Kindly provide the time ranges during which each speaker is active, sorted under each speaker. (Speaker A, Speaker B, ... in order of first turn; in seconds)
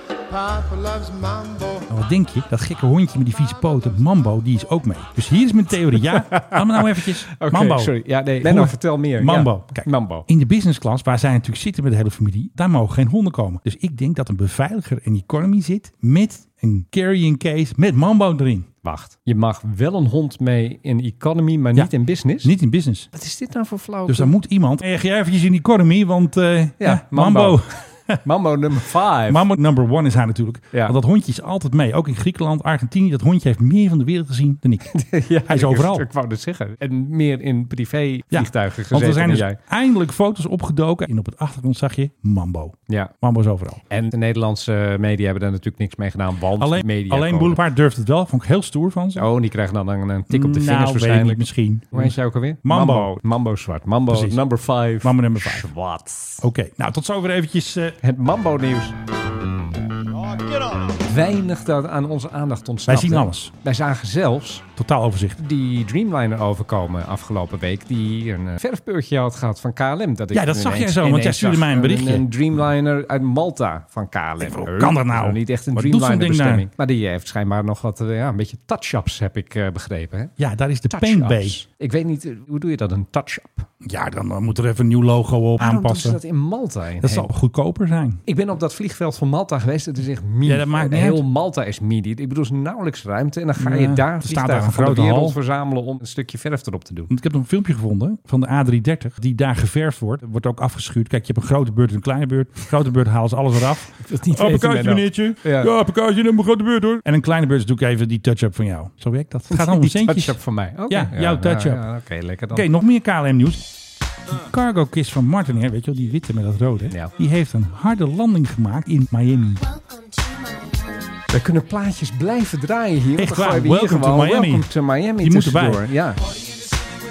Speaker A: 1.9-18.7, 22.4-23.1, 24.1-28.2, 29.3-36.1, 38.3-43.8, 46.6-49.3, 50.3-53.1, 54.1-54.4, 55.0-55.7, 56.4-58.0, 62.9-63.5, 64.8-65.4, 70.3-72.2, 74.4-76.7, 80.4-81.6, 83.8-86.2, 87.0-88.2, 90.5-91.2, 93.6-95.4, 97.1-110.4, 110.9-111.8, 112.5-113.6, 114.3-119.7, 123.2-125.9
Speaker B: 6.3-10.3, 18.8-22.5, 23.1-24.3, 26.8-27.6, 28.2-29.4, 30.7-31.0, 34.9-39.6, 43.9-47.6, 49.2-56.4, 58.0-58.9, 61.0-64.6, 65.4-80.3, 80.9-83.7, 85.6-87.3, 88.3-97.1, 104.0-105.7, 109.5-112.7, 121.3-126.2